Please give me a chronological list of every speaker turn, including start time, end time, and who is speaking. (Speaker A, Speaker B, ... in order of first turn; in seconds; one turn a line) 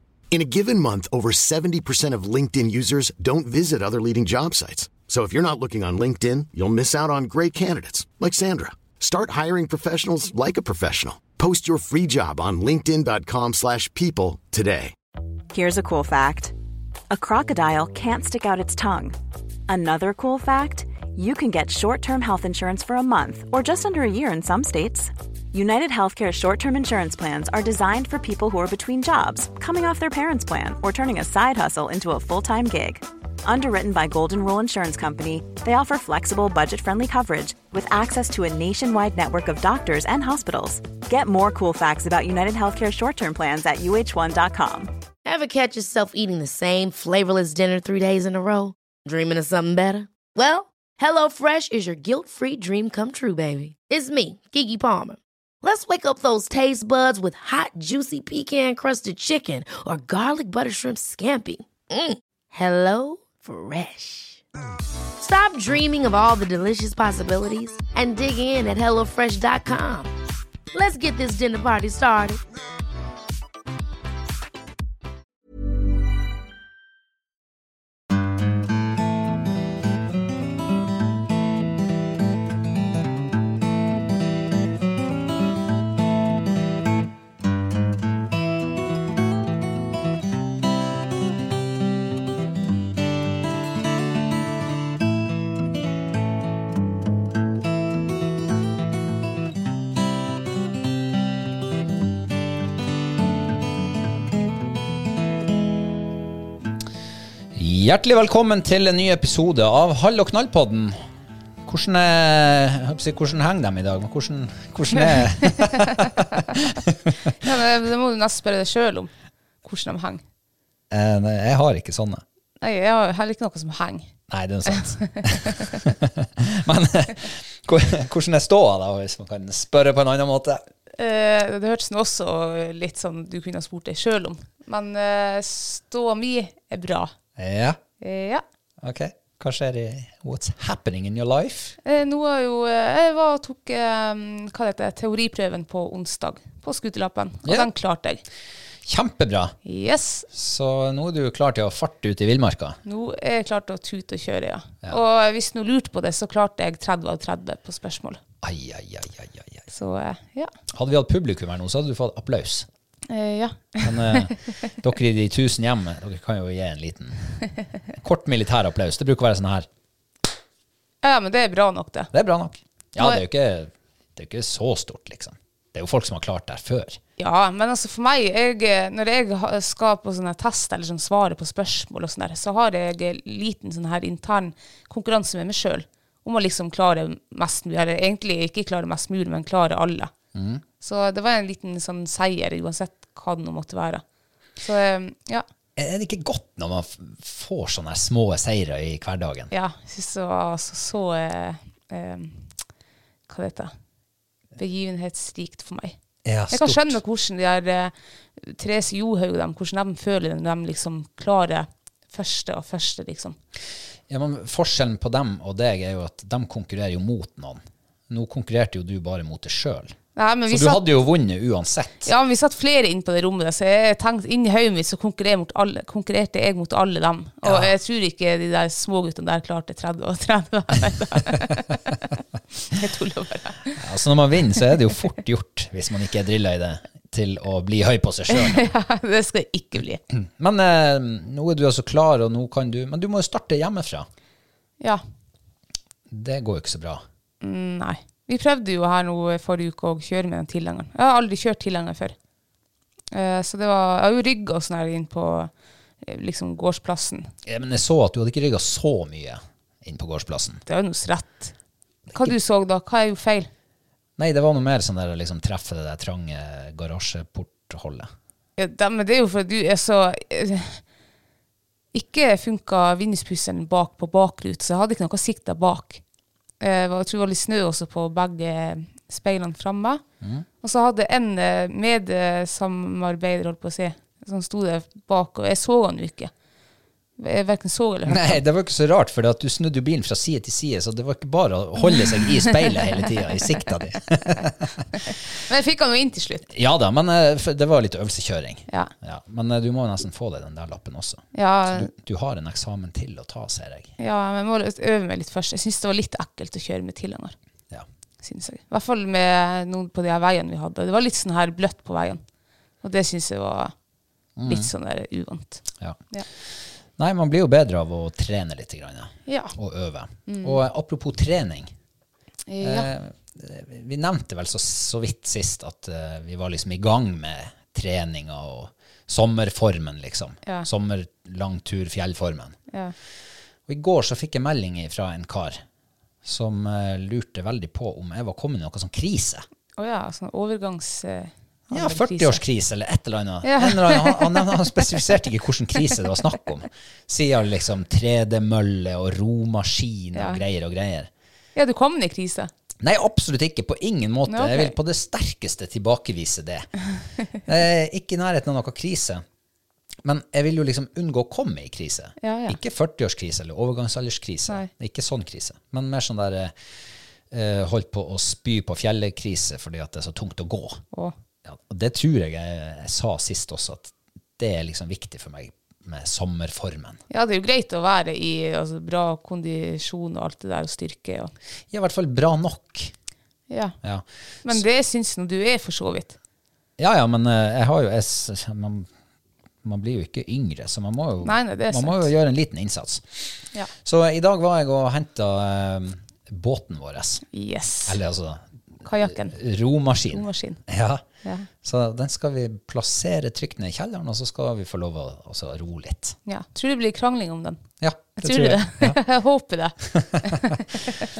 Speaker A: 0.3-14.9
Speaker B: 15.5-16.5
Speaker B: 17.1-19.1
Speaker B: 19.7-44.9
Speaker C: 45.2-64.4
Speaker C: 65.2-70.1
Speaker C: 70.7-72.4
Speaker D: 107.5-111.0
Speaker D: 111.6-117.3
Speaker E: 115.1-116.0
Speaker E: 117.4-119.1
Speaker E: 119.6-120.2
Speaker D: 120.9-122.2
Speaker E: 122.6-124.1
Speaker D: 124.3-130.6
Speaker E: 124.7-125.7
Speaker E: 130.9-137.1
Speaker D: 137.4-137.8
Speaker E: 138.0-138.4
Speaker D: 138.8-141.8
Speaker E: 141.8-148.2
Speaker D: 147.4-147.7
Speaker D: 148.8-149.6
Speaker E: 149.6-150.3
Speaker D: 150.3-152.8
Speaker E: 152.8-158.2
Speaker D: 158.4-159.6
Speaker E: 159.7-160.5
Speaker D: 160.7-162.7
Speaker E: 163.1-164.3
Speaker D: 163.8-167.2
Speaker D: 168.0-169.7
Speaker E: 171.0-172.1
Speaker D: 172.1-177.0
Speaker E: 177.2-190.1
Speaker D: 190.3-190.6
Speaker E: 190.8-194.0
Speaker E: 194.6-195.4
Speaker D: 195.8-199.5
Speaker E: 199.5-202.5
Speaker E: 203.3-203.7
Speaker E: 204.6-205.9
Speaker D: 206.2-207.0
Speaker E: 206.5-213.3
Speaker D: 214.1-219.9
Speaker E: 220.2-220.8
Speaker D: 220.5-222.1
Speaker E: 222.0-232.0
Speaker D: 227.4-227.7
Speaker E: 232.6-233.8
Speaker D: 233.8-238.7
Speaker E: 238.3-240.0
Speaker D: 240.1-244.1
Speaker D: 246.1-247.0
Speaker E: 247.4-252.1
Speaker E: 253.1-255.5
Speaker E: 256.0-257.3
Speaker D: 257.4-260.6
Speaker E: 260.7-261.5
Speaker E: 262.1-263.5
Speaker D: 264.2-268.1
Speaker E: 268.6-270.8
Speaker E: 271.9-276.0
Speaker E: 276.6-280.0
Speaker D: 280.2-280.4
Speaker E: 280.6-286.3
Speaker E: 287.2-288.4
Speaker D: 288.1-295.1
Speaker E: 295.4-296.5
Speaker D: 296.5-303.9
Speaker E: 301.3-301.9
Speaker E: 304.0-307.3
Speaker E: 308.2-312.2
Speaker E: 312.8-313.7
Speaker D: 314.4-314.7
Speaker E: 314.4-316.2
Speaker D: 315.8-321.7
Speaker E: 319.3-319.5
Speaker E: 320.2-320.6
Speaker E: 322.5-322.9
Speaker D: 322.6-332.6
Speaker D: 333.7-335.6
Speaker D: 336.2-339.4
Speaker E: 339.8-342.4
Speaker D: 341.7-351.1
Speaker E: 343.4-344.8
Speaker E: 350.1-350.4
Speaker E: 351.5-352.5
Speaker D: 352.8-356.7
Speaker E: 354.3-354.7
Speaker D: 357.4-359.2
Speaker D: 360.0-366.5
Speaker E: 362.2-362.6
Speaker D: 367.3-370.8
Speaker D: 371.4-377.0
Speaker E: 377.1-381.3
Speaker D: 381.7-382.9
Speaker E: 383.5-383.8
Speaker D: 383.8-384.6
Speaker E: 384.4-386.1
Speaker D: 386.8-388.9
Speaker D: 389.6-393.3
Speaker E: 391.2-392.1
Speaker D: 393.8-397.2
Speaker E: 397.3-398.0
Speaker D: 397.9-401.0
Speaker E: 398.8-399.4
Speaker E: 400.1-400.6
Speaker D: 401.6-406.2
Speaker E: 406.2-407.6
Speaker D: 407.8-409.0
Speaker E: 408.2-410.6
Speaker D: 409.9-410.6